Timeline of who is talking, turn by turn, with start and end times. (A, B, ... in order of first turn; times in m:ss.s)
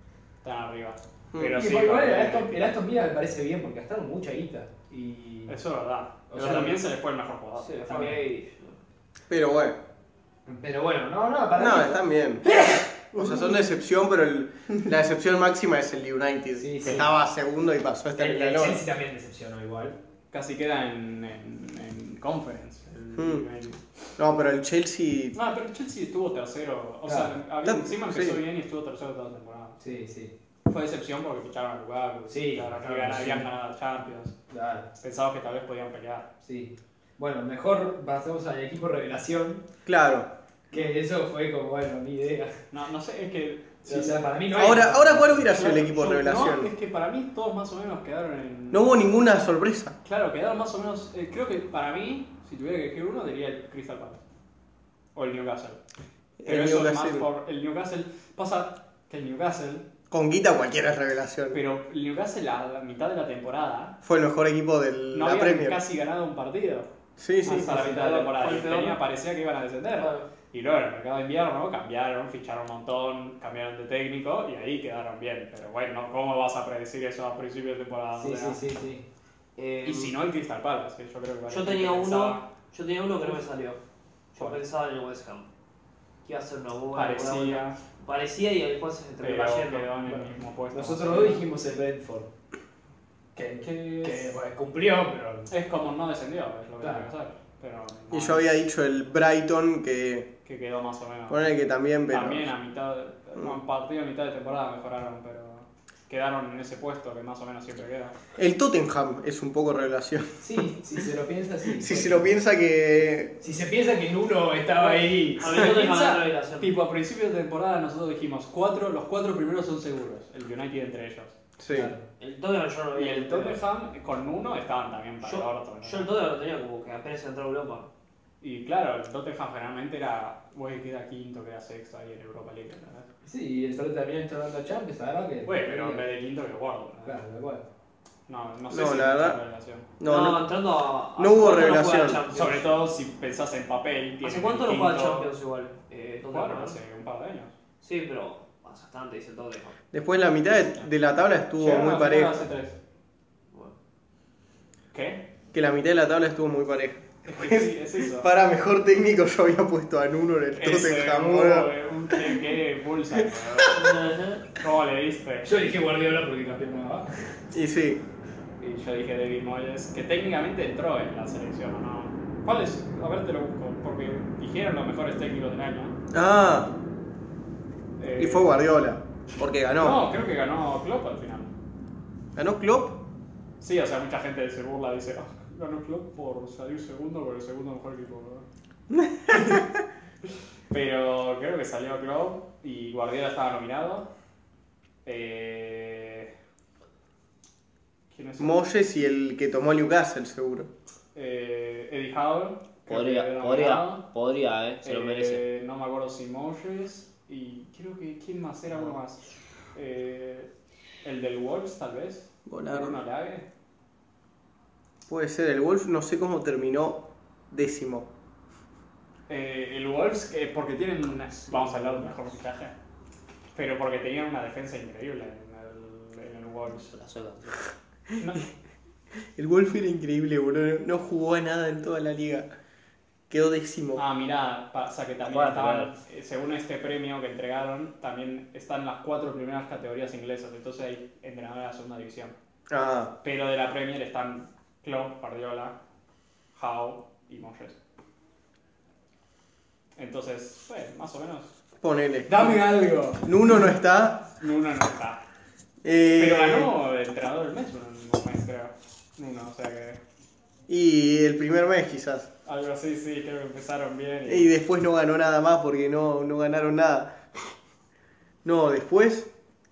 0:00.4-0:02.6 A
0:01.3-0:01.6 B
0:01.5-0:05.6 C
0:05.5-0:08.2 A
0:06.3-0:06.8 C
0:07.6-0:08.8 D
0:07.9-0:08.2 C
0:09.3-0:09.8 B
0:10.5-0:13.6 C
0:11.6-0:18.8 B
0:16.6-0:17.1 C
0:18.2-0:20.0 C
0:20.3-0:24.0 A
0:23.2-0:23.5 B
0:24.2-0:25.4 B
0:25.4-0:29.8 A
0:27.0-0:27.3 C
0:27.6-0:28.4 B
0:29.8-0:30.3 C
0:30.7-0:34.4 A
0:32.3-0:33.5 C
0:34.5-0:34.9 C
0:35.0-0:36.3 A
0:36.4-0:39.6 C
0:39.9-0:40.3 B
0:40.7-0:42.6 C
0:42.7-0:44.3 A
0:43.8-0:45.4 C
0:44.5-0:46.7 B
0:45.5-0:49.0 A
0:48.7-0:50.0 B
0:50.0-0:54.2 A
0:55.2-0:55.8 A
0:56.4-0:57.3 B
0:56.5-0:59.9 A
1:00.1-1:01.6 B
1:01.5-1:04.0 A
1:04.0-1:05.8 B
1:05.1-1:06.9 A
1:07.2-1:07.7 B
1:07.4-1:18.6 A
1:07.5-1:09.0 D
1:10.0-1:10.3 D
1:18.2-1:19.0 C
1:19.6-1:20.2 D
1:19.8-1:22.4 A
1:21.5-1:23.8 D
1:24.3-1:25.5 D
1:26.2-1:29.9 D
1:26.9-1:27.8 A
1:29.2-1:31.4 A
1:30.0-1:32.3 C
1:33.4-1:35.5 C
1:33.6-1:34.4 A
1:35.5-1:38.5 A
1:36.8-1:37.1 C
1:38.1-1:40.3 B
1:40.4-1:41.5 A
1:41.3-1:42.5 B
1:42.1-1:48.2 A
1:48.4-1:50.5 B
1:50.4-1:52.3 C
1:51.7-1:53.4 B
1:53.4-1:55.5 C
1:54.9-2:01.4 A
1:55.4-1:56.8 D
2:01.6-2:01.9 B
2:01.7-2:02.0 C
2:02.2-2:03.6 D
2:03.0-2:06.1 A
2:05.2-2:07.9 D
2:08.4-2:13.1 A
2:13.2-2:16.1 C
2:15.5-2:17.2 A
2:17.0-2:17.6 C
2:18.3-2:19.9 A
2:18.7-2:19.4 B
2:20.0-2:20.5 B
2:20.0-2:22.7 D
2:21.2-2:22.2 B
2:22.3-2:25.3 A
2:24.2-2:26.8 D
2:26.3-2:27.5 A
2:27.8-2:29.8 D
2:29.9-2:32.4 B
2:31.6-2:32.8 A
2:34.9-2:35.3 A
2:35.5-2:42.4 B
2:37.3-2:38.3 A
2:40.6-2:45.5 A
2:43.2-2:43.6 B
2:43.7-2:44.4 D
2:45.4-2:47.2 C
2:47.5-2:48.0 B
2:48.6-2:56.0 A
2:56.1-2:56.7 B
2:58.0-2:58.5 A
2:58.2-3:00.0 B
2:59.7-3:01.5 A
3:02.4-3:03.0 B
3:03.6-3:08.5 A
3:08.9-3:09.6 B
3:09.3-3:09.6 A
3:10.7-3:14.1 A
3:15.0-3:16.3 A
3:18.1-3:18.6 A
3:18.4-3:20.7 B
3:21.2-3:24.0 A
3:22.9-3:25.4 D
3:24.8-3:30.5 A
3:31.0-3:33.5 A
3:32.5-3:33.0 B
3:35.1-3:38.1 B
3:39.3-3:42.7 A
3:41.5-3:42.3 D
3:43.5-3:46.9 A
3:46.9-3:47.7 D
3:48.2-3:48.5 A
3:49.4-3:52.5 B
3:53.3-3:54.0 B
3:54.0-4:02.3 A
3:55.2-3:55.9 D
4:02.7-4:03.1 B
4:03.2-4:05.8 A
4:06.6-4:07.8 A
4:10.0-4:11.5 A
4:11.8-4:12.4 B
4:12.3-4:13.6 A
4:13.2-4:14.3 B
4:14.4-4:15.2 A
4:15.8-4:16.7 B
4:16.2-4:20.0 A
4:20.7-4:22.3 B
4:22.4-4:24.5 A
4:24.3-4:27.2 B
4:28.4-4:29.3 B